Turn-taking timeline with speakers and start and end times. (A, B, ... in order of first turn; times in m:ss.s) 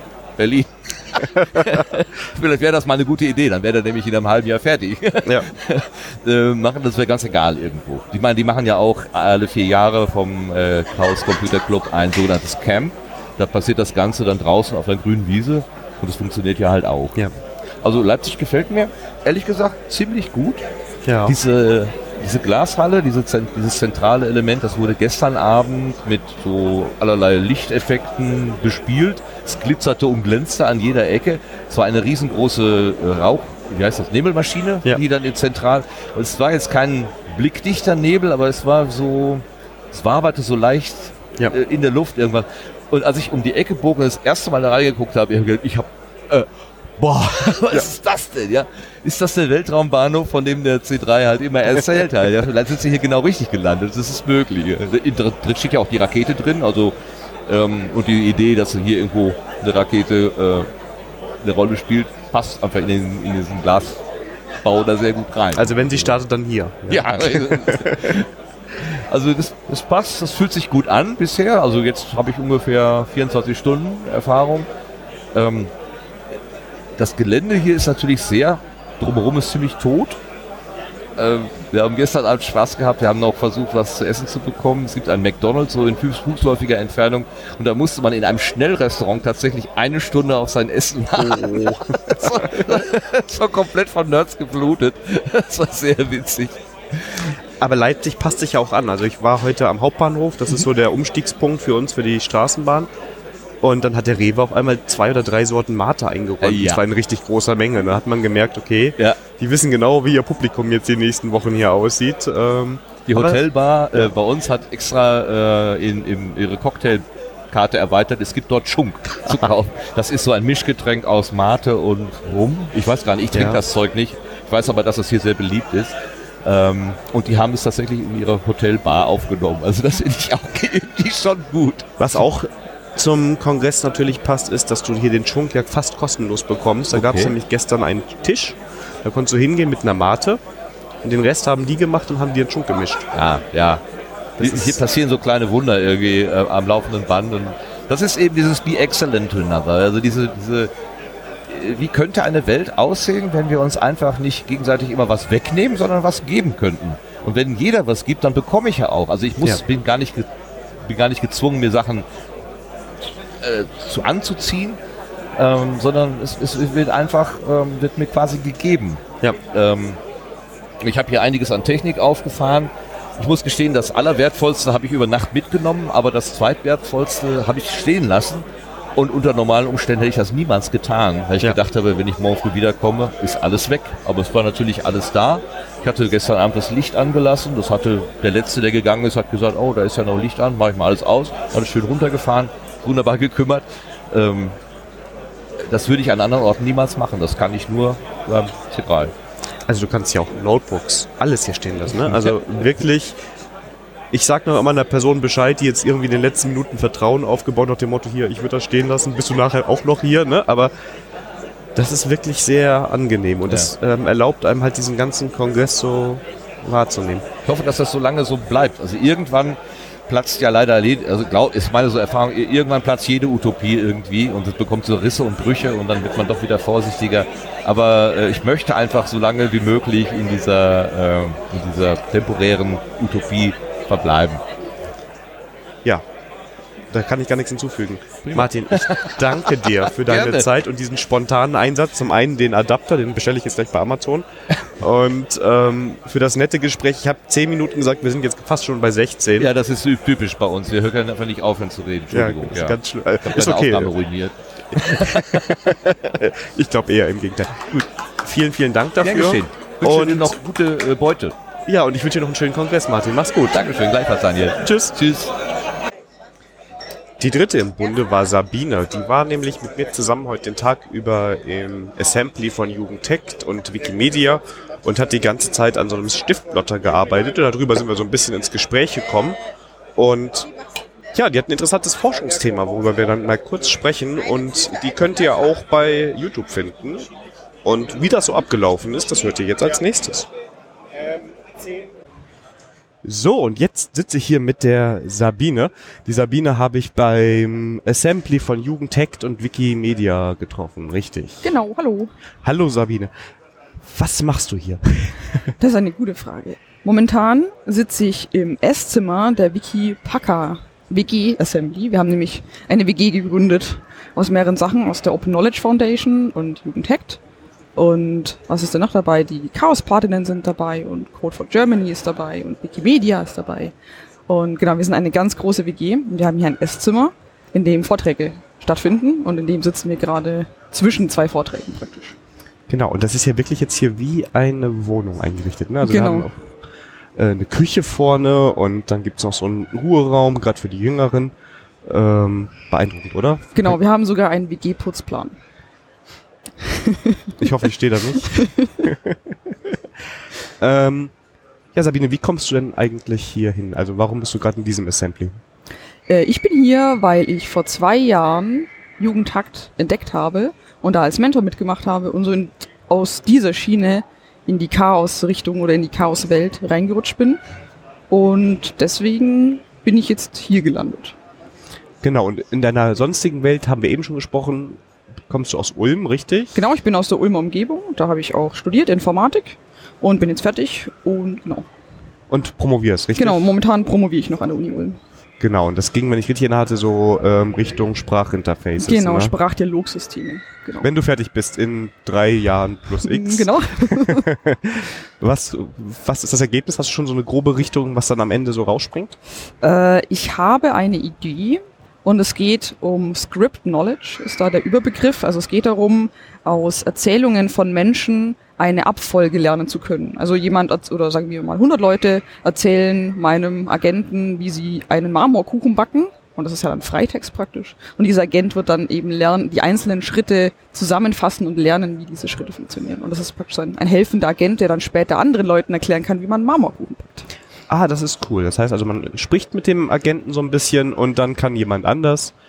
0:00.4-0:17.2 A
0:17.8-0:20.6 A
0:21.1-0:21.4 B
0:21.3-0:56.9 A
0:57.5-1:00.7 A
1:01.4-1:04.0 A
1:04.6-1:06.2 A
1:05.6-1:08.2 B
1:06.9-1:08.3 A
1:08.8-1:14.7 A
1:15.3-1:15.7 A
1:17.0-1:20.2 A
1:21.2-1:37.3 A
1:31.2-1:32.6 B
1:37.6-1:42.9 B
1:43.6-1:53.4 B
1:46.4-1:46.8 A
1:53.1-2:11.9 A
2:03.3-2:03.6 B
2:12.0-2:20.4 B
2:16.9-2:17.4 A
2:21.0-2:23.0 B
2:23.1-2:23.8 A
2:24.4-2:24.8 B
2:24.4-2:30.7 A
2:31.5-2:40.3 A
2:40.8-2:42.1 A
2:43.4-2:44.8 A
2:45.4-2:50.0 A
2:50.8-3:14.6 A
3:15.7-3:19.1 A
3:19.7-3:23.2 B
3:24.1-3:30.7 B
3:31.8-3:37.2 B
3:37.5-3:39.6 A
3:40.1-3:54.4 A
3:56.9-4:04.3 B
3:58.3-4:00.4 A
4:04.8-4:09.5 B
4:09.4-4:15.7 A
4:12.1-4:13.9 B
4:14.7-4:20.4 B
4:19.0-4:21.4 A
4:21.7-4:23.6 B
4:23.5-4:25.3 A
4:24.6-4:25.0 B
4:27.2-4:39.4 B
4:40.0-4:40.5 B
4:41.1-4:47.0 B
4:47.6-4:50.3 B
4:53.0-5:01.5 B
5:01.4-5:02.1 C
5:02.4-5:03.1 B
5:03.8-5:05.5 B
5:05.6-5:17.2 C
5:17.8-5:23.7 C
5:24.3-5:32.2 C
5:32.7-5:36.4 B
5:35.8-5:36.3 C
5:37.2-5:41.3 B
5:41.9-5:43.8 B
5:43.5-5:45.4 C
5:46.6-5:47.2 C
5:47.4-5:49.2 B
5:48.2-5:48.7 C
5:50.6-5:51.1 B
5:51.8-5:55.4 B
5:56.1-6:07.4 C
6:08.1-6:11.2 C
6:12.0-6:16.6 B
6:16.6-6:21.7 C
6:22.3-6:23.5 B
6:23.2-6:25.0 C
6:25.4-6:29.3 B
6:28.8-6:30.9 C
6:30.8-6:39.2 B
6:33.0-6:34.3 C
6:39.6-7:07.3 C
7:07.7-7:12.3 B